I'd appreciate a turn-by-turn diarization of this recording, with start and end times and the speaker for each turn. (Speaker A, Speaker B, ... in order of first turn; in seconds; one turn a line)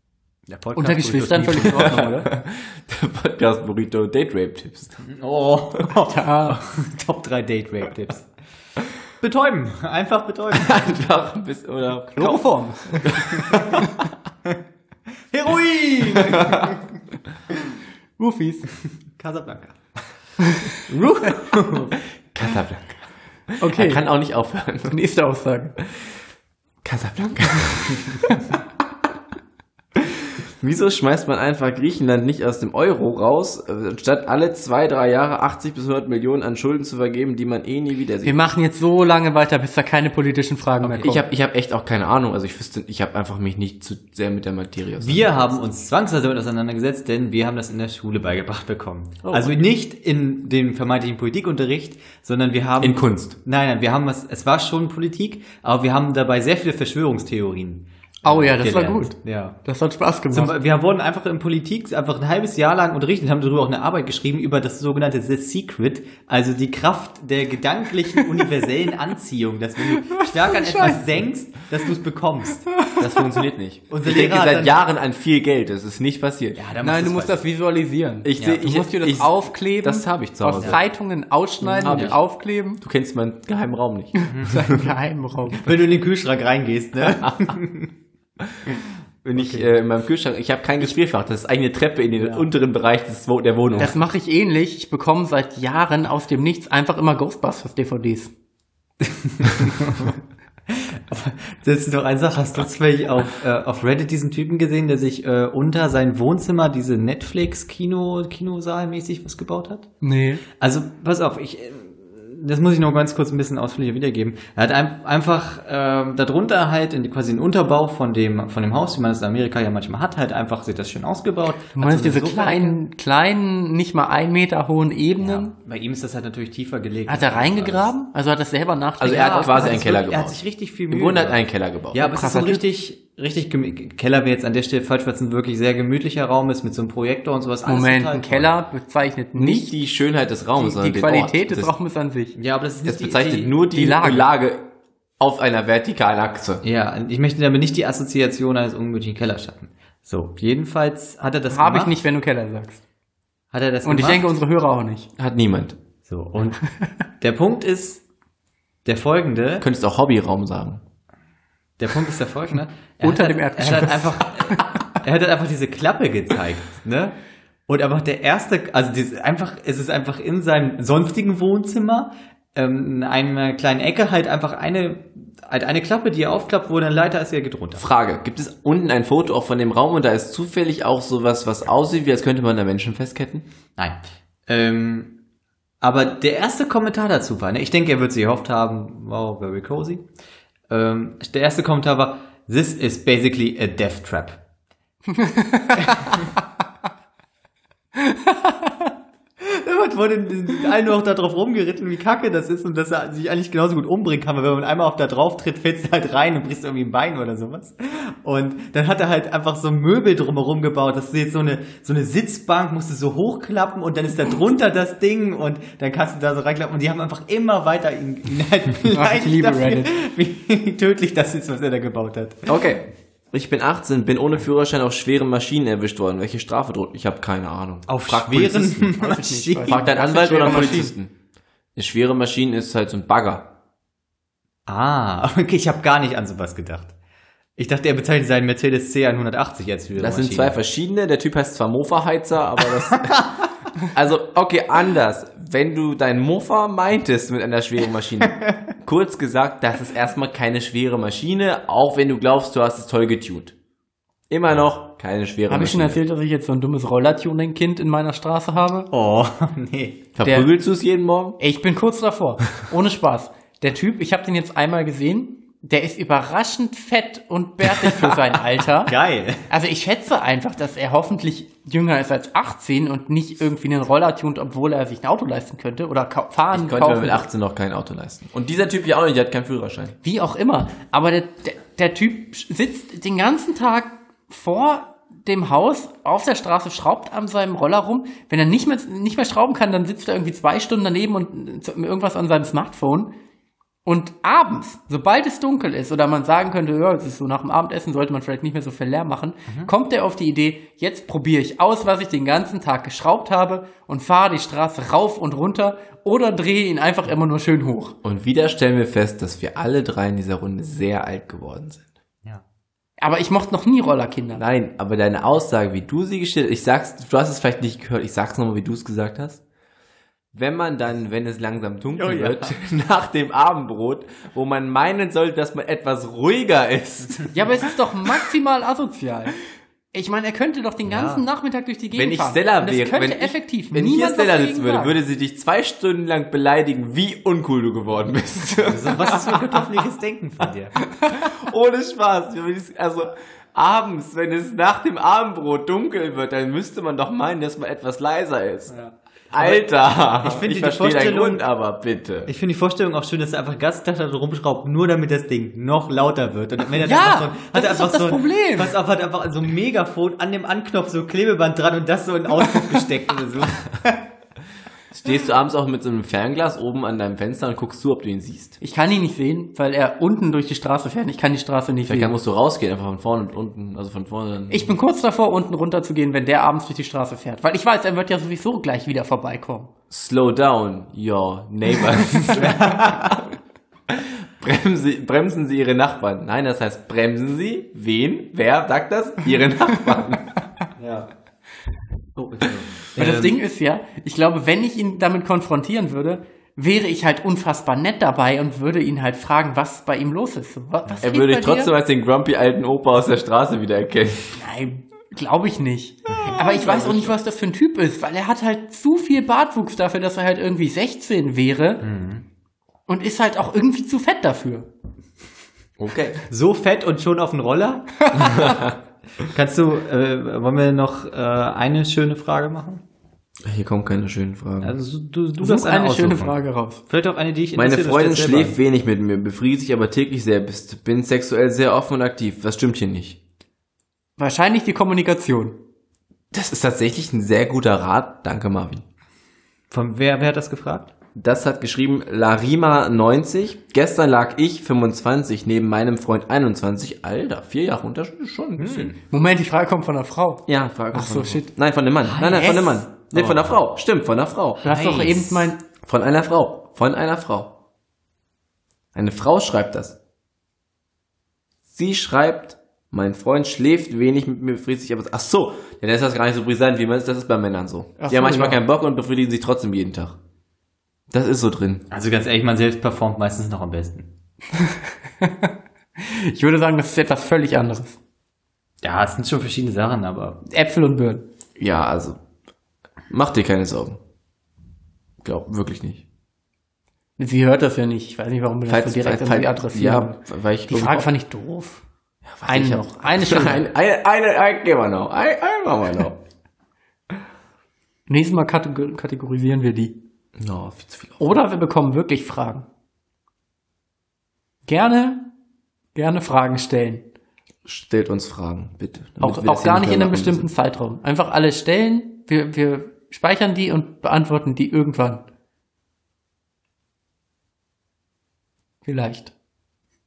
Speaker A: 0.5-2.1
Speaker B: 0.8-2.3
Speaker C: 1.7-5.0
Speaker A: 5.0-8.3
Speaker B: 6.0-6.6
Speaker A: 9.2-11.0
Speaker C: 10.5-13.9
Speaker B: 12.2-13.1
Speaker A: 13.3-13.8
Speaker A: 15.3-16.8
Speaker C: 16.1-16.7
Speaker B: 18.2-18.6
Speaker A: 19.2-19.8
Speaker B: 20.4-20.7
Speaker A: 20.9-21.9
Speaker B: 21.4-21.8
Speaker C: 22.3-22.9
Speaker C: 23.6-24.9
Speaker B: 23.6-24.0
Speaker B: 24.9-25.7
Speaker C: 26.8-28.3
Speaker C: 30.4-38.4
Speaker B: 38.2-41.2
Speaker C: 40.9-45.4
Speaker A: 45.0-59.6
Speaker C: 49.2-49.5
Speaker C: 52.8-53.4
Speaker B: 58.2-60.5
Speaker A: 60.3-72.7
Speaker B: 70.0-71.0
Speaker B: 72.7-73.0
Speaker C: 73.0-76.6
Speaker A: 73.9-74.8
Speaker A: 76.5-77.4
Speaker B: 76.8-82.8
Speaker C: 78.2-80.8
Speaker C: 81.7-82.2
Speaker A: 81.8-82.2
Speaker C: 82.8-84.2
Speaker B: 84.2-85.7
Speaker A: 84.3-84.6
Speaker A: 85.6-87.9
Speaker C: 87.2-87.5
Speaker C: 89.2-93.9
Speaker A: 89.3-89.7
Speaker A: 92.2-92.5
Speaker B: 93.8-98.3
Speaker A: 99.0-100.2
Speaker A: 100.7-109.9
Speaker B: 110.0-110.4
Speaker A: 110.6-122.8
Speaker B: 121.8-125.5
Speaker A: 125.2-127.9
Speaker B: 127.1-129.9
Speaker C: 129.0-132.0
Speaker A: 129.1-131.4
Speaker A: 131.9-138.5
Speaker B: 132.0-132.6
Speaker B: 137.7-139.7
Speaker C: 139.3-141.7
Speaker B: 140.6-142.3
Speaker A: 142.3-143.5
Speaker C: 142.8-144.7
Speaker B: 143.7-144.3
Speaker C: 145.2-146.6
Speaker A: 146.6-152.0
Speaker B: 151.5-152.8
Speaker A: 153.5-154.3
Speaker B: 153.8-155.1
Speaker C: 155.2-155.8
Speaker A: 156.1-156.6
Speaker A: 157.2-158.0
Speaker A: 158.8-159.7
Speaker C: 159.6-160.8
Speaker A: 161.8-167.2
Speaker B: 163.0-164.7
Speaker A: 167.7-177.8
Speaker C: 177.8-183.4
Speaker A: 183.8-185.1
Speaker A: 185.8-190.1
Speaker A: 190.7-194.4
Speaker B: 195.1-196.2
Speaker B: 198.0-198.7
Speaker A: 199.4-222.5
Speaker B: 218.9-219.9
Speaker C: 222.5-228.9
Speaker A: 227.9-230.8
Speaker B: 228.9-230.9
Speaker C: 229.6-231.1
Speaker C: 231.7-233.5
Speaker A: 234.7-236.9
Speaker A: 237.6-240.6
Speaker C: 240.0-253.5
Speaker A: 248.3-248.6
Speaker C: 254.3-256.0
Speaker B: 255.5-258.9
Speaker A: 258.9-260.0
Speaker C: 260.1-261.4
Speaker B: 260.2-260.5
Speaker B: 261.4-268.9
Speaker A: 267.8-268.2
Speaker A: 268.8-269.4
Speaker B: 269.5-277.2
Speaker C: 276.5-279.9
Speaker B: 280.0-293.1
Speaker B: 293.8-307.9
Speaker C: 308.0-311.8
Speaker B: 313.0-314.4
Speaker C: 314.4-319.4
Speaker C: 320.3-327.4
Speaker A: 321.9-322.6
Speaker B: 327.3-329.4
Speaker B: 329.9-334.9
Speaker A: 330.8-331.2
Speaker C: 331.9-339.6
Speaker A: 338.6-340.7
Speaker C: 341.1-348.7
Speaker A: 348.7-351.4
Speaker C: 349.3-352.3
Speaker A: 352.2-364.0
Speaker B: 356.8-358.7
Speaker C: 364.9-368.6
Speaker B: 368.6-372.1
Speaker C: 371.9-374.7
Speaker B: 374.5-379.7
Speaker C: 379.9-383.3
Speaker A: 382.3-383.2
Speaker C: 383.9-390.3
Speaker A: 390.8-391.1
Speaker A: 392.2-393.4
Speaker B: 393.0-401.7
Speaker C: 401.0-404.4
Speaker B: 404.3-411.8
Speaker A: 406.1-407.0
Speaker C: 406.6-407.1
Speaker A: 411.8-412.2
Speaker B: 412.9-414.7
Speaker C: 415.8-416.2
Speaker A: 416.3-418.6
Speaker C: 418.1-418.8
Speaker A: 419.2-422.8
Speaker C: 423.4-424.7
Speaker A: 424.6-428.6
Speaker B: 425.4-426.8
Speaker C: 427.6-433.2
Speaker B: 434.2-435.6
Speaker C: 436.3-438.8
Speaker A: 439.7-440.9
Speaker C: 441.1-448.9
Speaker A: 448.6-449.0
Speaker B: 449.1-451.5
Speaker C: 450.5-454.6
Speaker A: 452.0-453.6
Speaker A: 454.6-455.5
Speaker B: 454.6-455.6
Speaker C: 455.8-457.5
Speaker C: 458.9-460.0
Speaker C: 461.7-470.2
Speaker B: 468.0-468.6
Speaker C: 471.1-471.8
Speaker A: 471.9-474.1
Speaker B: 474.5-478.0
Speaker A: 478.8-480.4
Speaker B: 480.4-481.2
Speaker C: 481.6-482.2
Speaker C: 483.1-484.0
Speaker C: 485.2-486.0
Speaker B: 487.2-491.8
Speaker C: 488.7-491.1
Speaker C: 492.2-496.2
Speaker B: 492.4-493.6
Speaker B: 498.1-500.0
Speaker C: 500.4-501.3
Speaker B: 501.2-502.6
Speaker B: 504.6-505.3
Speaker B: 505.9-507.1
Speaker C: 507.6-510.5
Speaker B: 509.2-515.2
Speaker B: 518.8-519.3